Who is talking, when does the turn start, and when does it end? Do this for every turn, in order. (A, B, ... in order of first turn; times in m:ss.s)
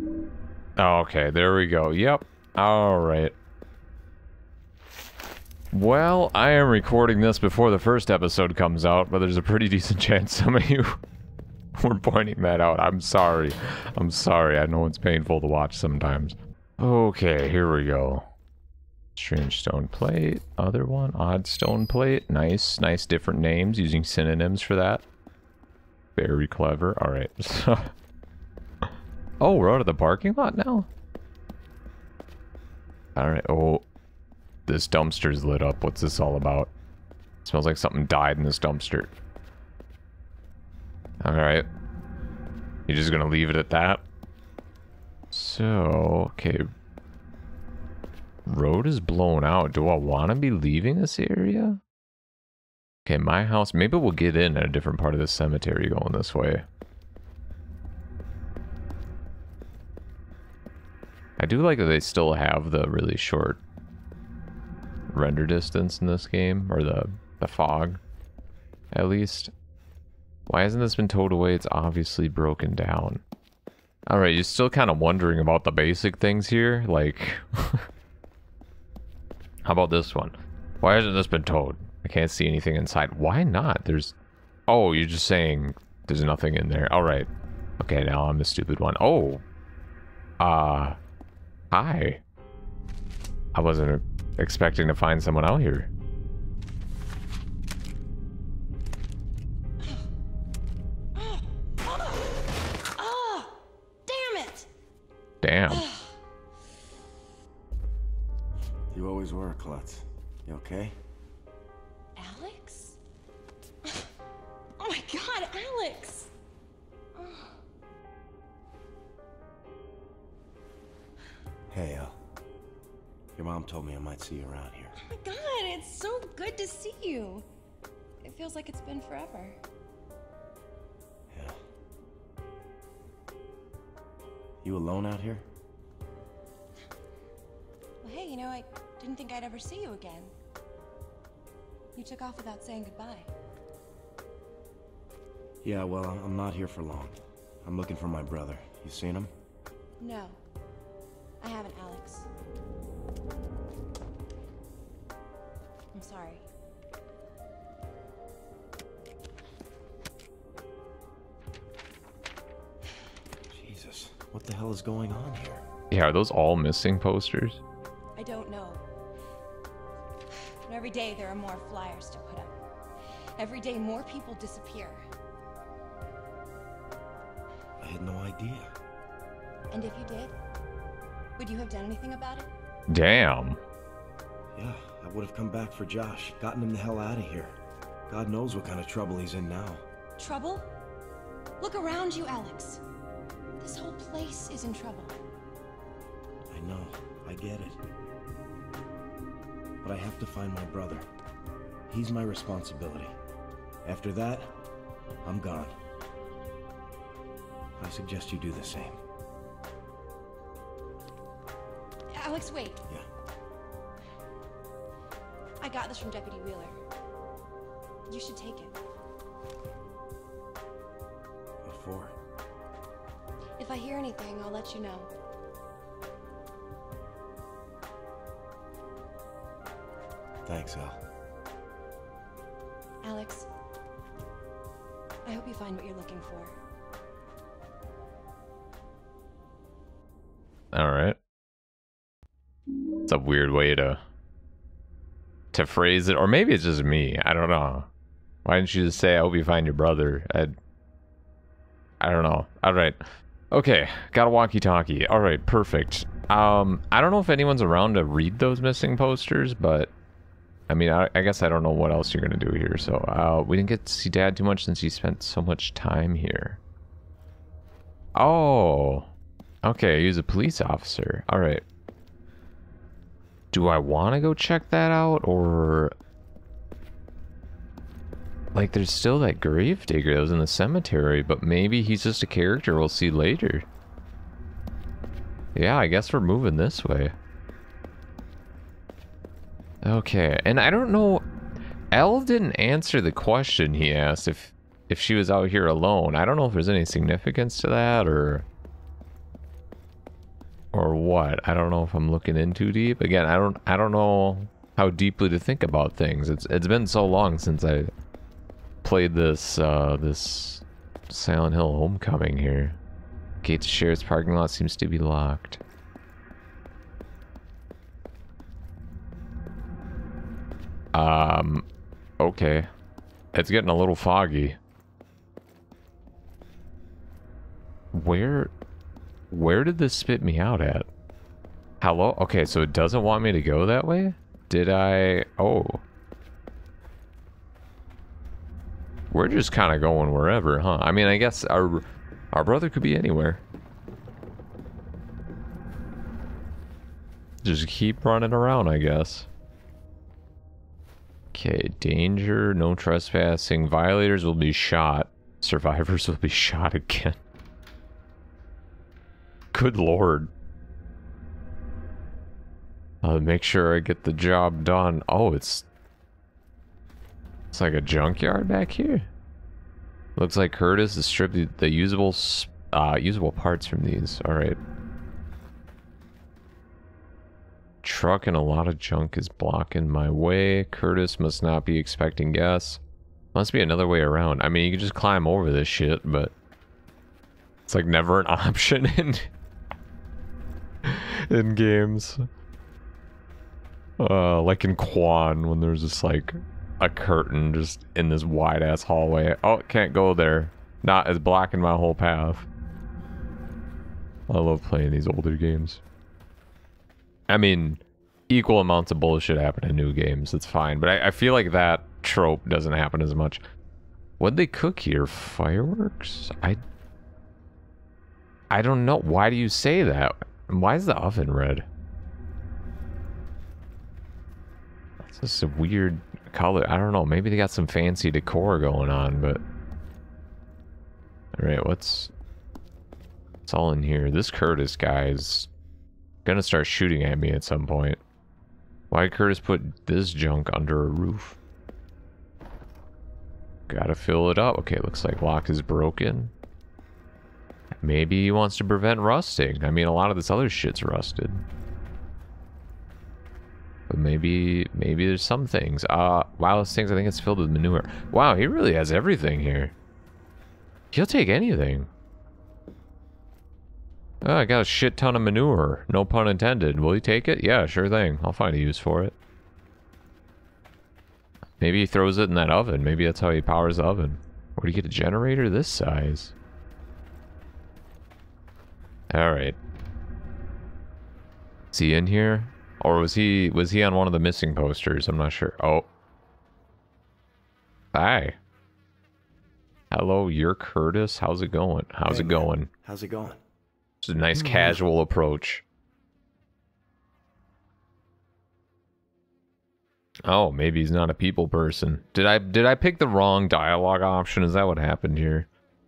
0:00.8-0:03.4 A
0:05.7-0:11.0 A
0:11.8-0:18.3 A
0:19.2-0:25.1 A
0:26.2-0:27.9 A
0:28.8-0:30.9 A
0:33.2-0:33.9 A
0:34.7-0:36.7 A
0:37.4-0:39.1 A
0:41.2-0:41.7 A
0:42.9-0:44.0 A
0:45.3-0:46.7 A
0:48.5-0:51.8 A
0:53.0-0:56.7 A
1:01.4-1:03.6 A
1:05.1-1:08.0 A
1:08.9-1:09.5 A
1:10.5-1:13.2 A
1:14.1-1:17.9 A
1:19.6-1:24.2 A
1:24.7-1:29.4 A
1:30.4-1:31.0 A
1:31.7-1:32.2 A
1:33.5-1:35.9 A
1:41.2-1:42.2 B
1:43.0-1:44.7 B
1:45.4-1:45.9 A
1:45.7-1:46.1 B
1:48.9-1:51.0 C
1:52.2-1:53.0 B
1:54.8-1:56.3 B
1:57.2-1:57.6 B
2:01.7-2:02.2 C
2:03.4-2:05.0 C
2:05.0-2:07.5 B
2:08.2-2:09.6 B
2:11.3-2:11.6 C
2:14.6-2:15.4 C
2:18.0-2:20.3 B
2:22.0-2:23.3 B
2:25.6-2:29.3 C
2:30.0-2:30.4 B
2:31.4-2:32.3 B
2:35.9-2:36.4 B
2:43.5-2:45.6 C
2:45.9-2:47.6 A
2:48.2-2:48.8 B
2:50.7-2:52.6 B
2:53.4-2:55.0 B
2:57.8-2:58.7 C
2:59.7-3:00.3 B
3:01.4-3:02.5 B
3:02.9-3:03.6 A
3:04.5-3:07.5 C
3:08.1-3:09.8 C
3:10.2-3:10.7 B
3:11.6-3:12.8 B
3:13.6-3:15.2 B
3:16.5-3:17.8 C
3:19.8-3:21.1 C
3:21.9-3:23.2 C
3:23.8-3:24.6 C
3:25.2-3:25.8 C
3:27.8-3:29.0 C
3:32.1-3:32.8 B
3:35.6-3:36.8 B
3:38.1-3:38.8 B
3:41.6-3:42.2 C
3:43.6-3:45.1 B
3:50.4-3:51.0 C
3:53.0-3:53.5 B
3:55.2-3:56.5 B
4:00.7-4:01.2 A
4:03.1-4:04.0 A
4:05.5-4:07.9 A
4:08.4-4:10.6 A
4:12.0-4:13.0 A
4:13.5-4:19.9 A
4:20.7-4:26.6 A
4:28.2-4:29.1 A
4:29.6-4:31.6 A
4:33.5-4:35.9 A
4:38.5-4:43.7 A
4:45.6-4:47.2 A
4:49.8-4:51.3 A
4:51.9-4:58.5 A
5:00.7-5:07.9 A
5:08.8-5:12.8 A
5:13.4-5:15.6 A
5:20.9-5:21.7 A
5:22.2-5:22.7 A
5:23.3-5:24.6 A
5:27.9-5:28.5 A
5:29.3-5:30.9 A
5:31.8-5:35.8 A
5:39.1-5:43.4 A
5:47.4-5:49.3 A
5:51.3-5:57.2 A
5:59.5-6:00.3 A
6:03.0-6:05.7 A
6:07.5-6:09.1 A
6:10.2-6:14.6 A
6:17.8-6:22.8 A
6:23.3-6:26.3 A
6:27.7-6:29.3 A
6:30.8-6:32.3 A
6:34.0-6:42.5 A
6:44.3-6:45.8 A
6:47.3-6:53.4 A
6:54.2-6:56.6 A
6:58.5-7:01.7 A
7:05.0-7:09.4 A
7:11.4-7:12.1 A
7:13.5-7:15.5 A
7:16.2-7:18.0 A
7:18.9-7:21.4 A
7:23.7-7:26.3 A
7:27.8-7:31.4 A
7:33.9-7:39.7 A
7:40.9-7:41.9 A
7:44.2-7:49.2 A
7:51.6-7:56.3 A
7:59.1-7:59.6 A
8:01.7-8:05.9 A
8:07.9-8:08.4 A
8:09.9-8:12.7 A
8:12.1-8:13.4 C
8:14.0-8:15.6 A
8:20.2-8:25.5 A